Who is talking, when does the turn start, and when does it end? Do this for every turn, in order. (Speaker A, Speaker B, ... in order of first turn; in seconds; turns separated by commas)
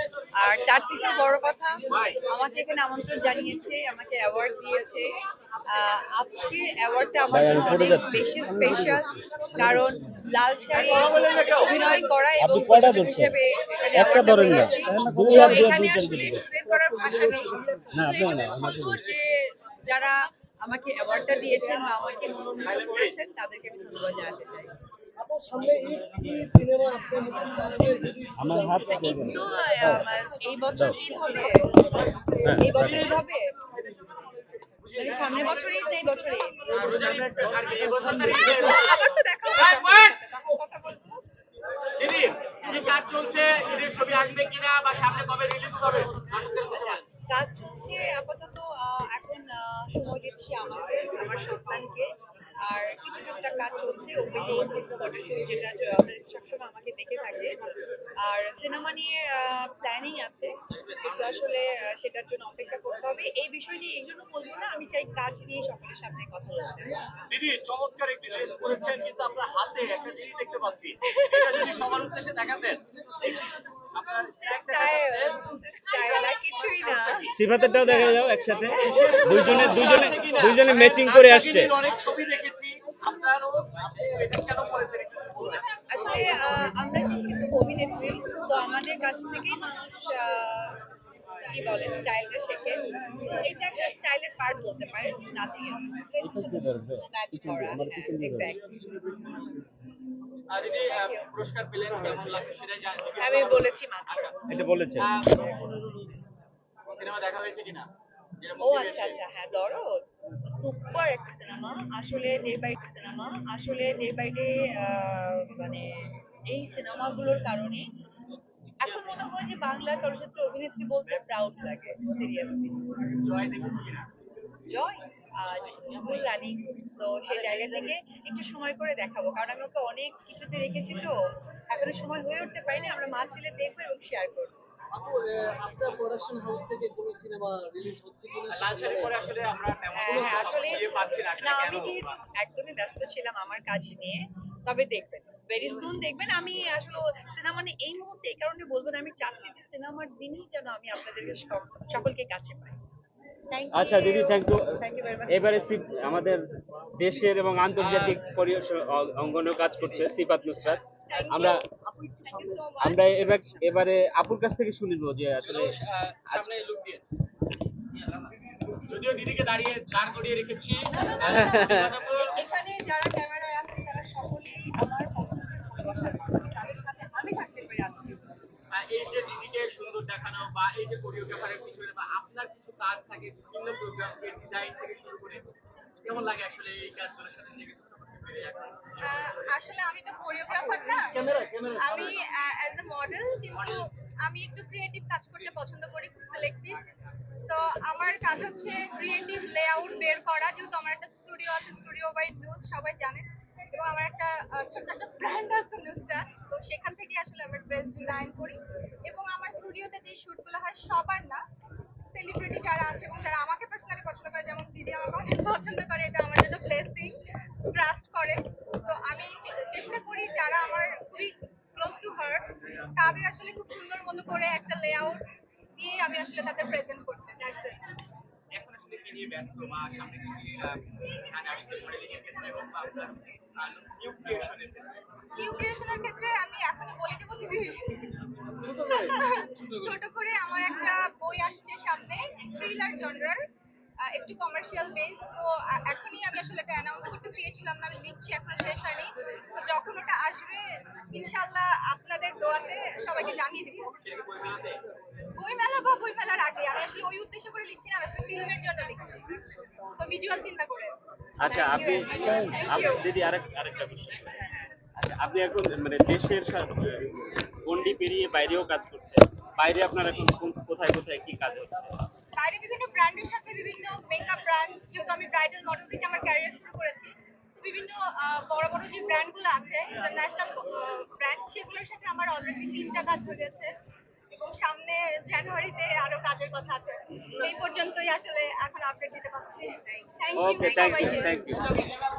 Speaker A: 0.3-5.1, Speaker B: 1.9-2.2, Speaker A: 5.7-24.7, Speaker C: 7.3-9.0, Speaker B: 10.7-11.9, Speaker C: 12.4-13.3, Speaker C: 13.9-16.4, Speaker D: 15.1-15.6, Speaker D: 16.6-18.2, Speaker C: 17.9-19.0, Speaker B: 22.6-23.2, Speaker D: 25.2-29.2, Speaker C: 28.4-30.0, Speaker A: 28.9-31.9, Speaker D: 31.4-32.1, Speaker C: 32.4-33.1, Speaker A: 32.5-33.5, Speaker B: 32.7-33.2, Speaker D: 34.8-35.4, Speaker A: 35.0-36.9, Speaker D: 36.7-39.0, Speaker B: 36.7-40.2, Speaker A: 38.3-41.2, Speaker B: 42.0-47.0, Speaker A: 47.3-52.1, Speaker A: 52.6-57.7, Speaker A: 58.2-67.1, Speaker B: 60.7-61.6, Speaker B: 67.3-77.4, Speaker A: 71.2-71.6, Speaker A: 74.2-80.2, Speaker C: 77.3-81.8, Speaker B: 78.7-85.6, Speaker A: 85.4-90.8, Speaker E: 85.5-86.7, Speaker A: 91.4-98.6, Speaker C: 96.2-98.5, Speaker B: 100.5-104.3, Speaker A: 100.7-101.3, Speaker A: 103.2-104.3, Speaker C: 104.5-105.1, Speaker B: 105.0-105.7, Speaker B: 106.9-107.9, Speaker B: 108.4-109.2, Speaker A: 108.6-117.9, Speaker A: 118.8-123.0, Speaker B: 123.1-124.1, Speaker A: 124.7-131.2, Speaker B: 125.6-126.2, Speaker B: 127.3-127.9, Speaker A: 131.7-134.6, Speaker D: 134.9-139.3, Speaker B: 138.5-142.2, Speaker A: 139.9-140.8, Speaker D: 140.1-140.5, Speaker A: 141.4-152.8, Speaker A: 153.5-155.3, Speaker C: 153.7-156.4, Speaker C: 157.0-161.6, Speaker B: 157.8-158.2, Speaker E: 161.1-163.6, Speaker A: 161.1-161.4, Speaker A: 162.2-162.7, Speaker C: 162.8-165.7, Speaker B: 165.4-167.0, Speaker B: 168.9-172.3, Speaker A: 171.2-178.3, Speaker C: 171.2-171.9, Speaker B: 178.7-189.1, Speaker E: 189.0-191.2, Speaker D: 190.7-191.8, Speaker B: 191.6-191.9, Speaker E: 191.8-196.8, Speaker B: 193.6-193.8, Speaker E: 197.4-211.4, Speaker E: 212.1-217.2, Speaker E: 217.7-225.2, Speaker E: 225.8-227.8, Speaker B: 228.5-235.0, Speaker E: 235.3-237.8, Speaker D: 238.6-239.2, Speaker E: 238.7-243.4, Speaker E: 244.0-253.9, Speaker B: 253.9-254.8, Speaker E: 255.3-259.2, Speaker E: 259.9-260.9, Speaker C: 261.4-264.4, Speaker A: 261.4-262.8, Speaker E: 261.7-263.1, Speaker C: 265.0-271.9, Speaker E: 272.3-283.7, Speaker E: 284.3-291.6, Speaker C: 290.4-291.7